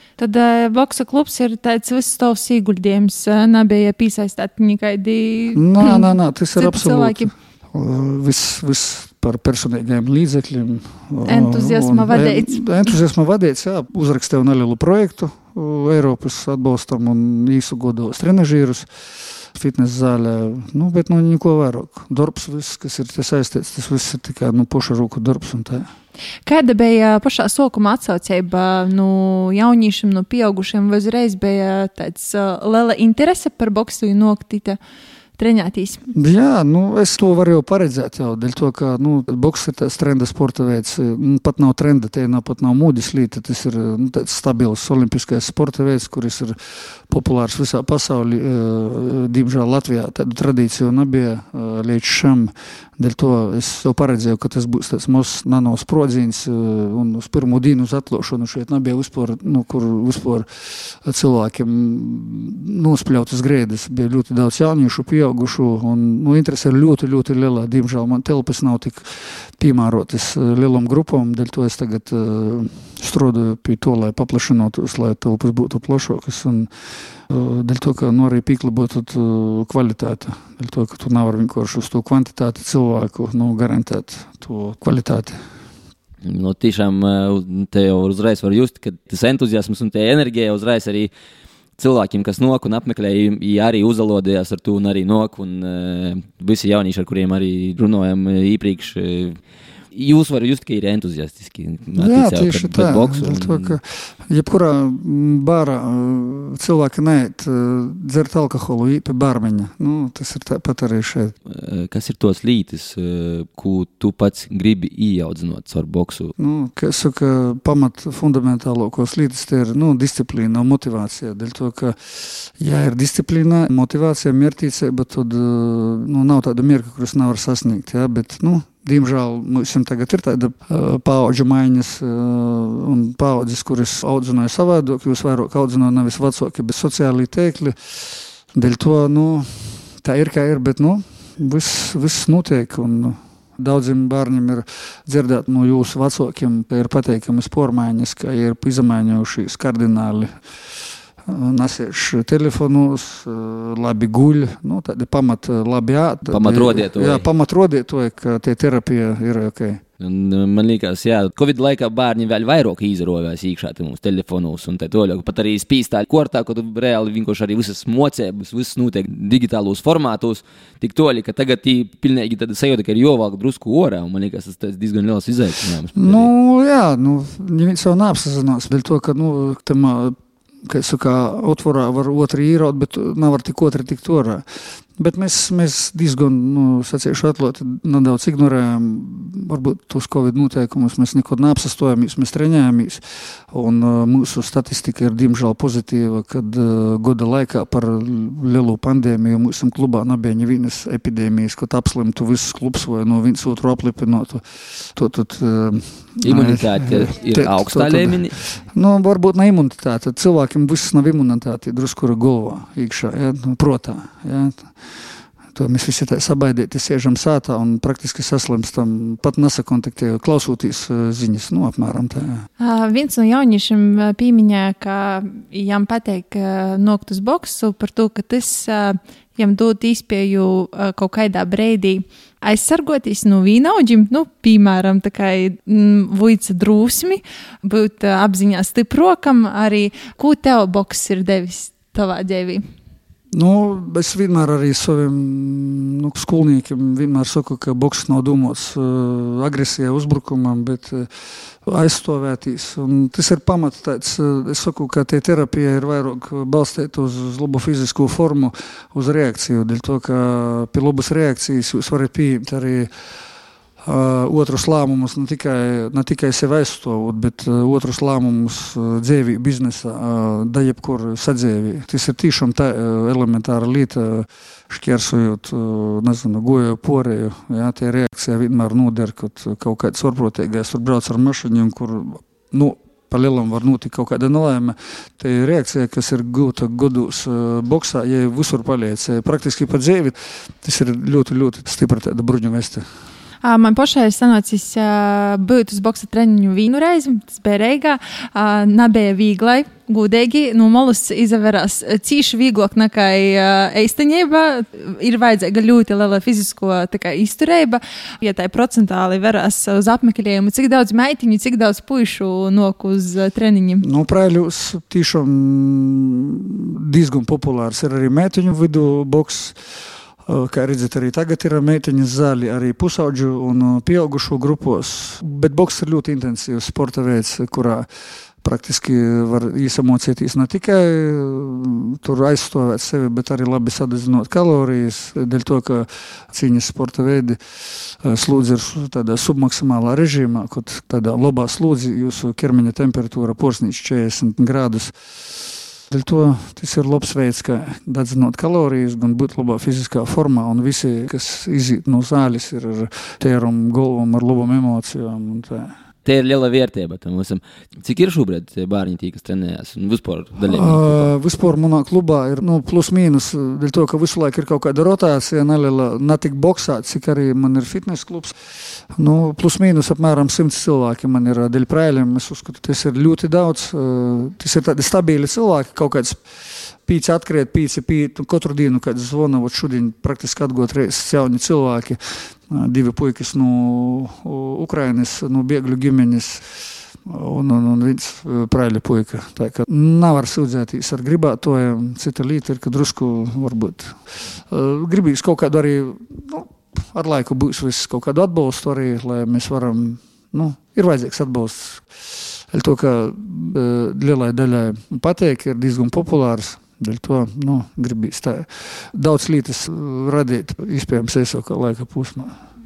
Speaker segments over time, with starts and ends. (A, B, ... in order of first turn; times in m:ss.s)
0:00.2-0:07.3 A
0:05.5-0:18.9 B
0:11.3-0:12.9 A
0:19.4-0:25.9 B
0:26.5-0:34.8 A
0:35.4-0:36.0 A
0:36.1-1:16.7 B
1:17.3-1:25.4 B
1:26.2-1:31.1 C
1:31.8-1:39.4 C
1:39.9-1:43.8 C
1:42.0-1:51.4 B
1:51.5-1:56.3 C
1:56.4-2:39.8 B
2:36.3-2:37.2 C
2:40.0-2:56.3 C
2:56.0-3:34.7 B
3:26.2-3:28.4 C
3:35.5-3:42.5 B
3:42.6-4:02.6 A
4:03.3-4:11.1 B
4:11.6-4:22.9 B
4:23.8-4:52.8 B
4:53.4-5:13.8 A
5:13.8-5:19.6 B
5:20.3-5:27.9 B
5:28.4-5:55.8 B
5:56.0-6:01.1 C
6:00.5-6:52.4 B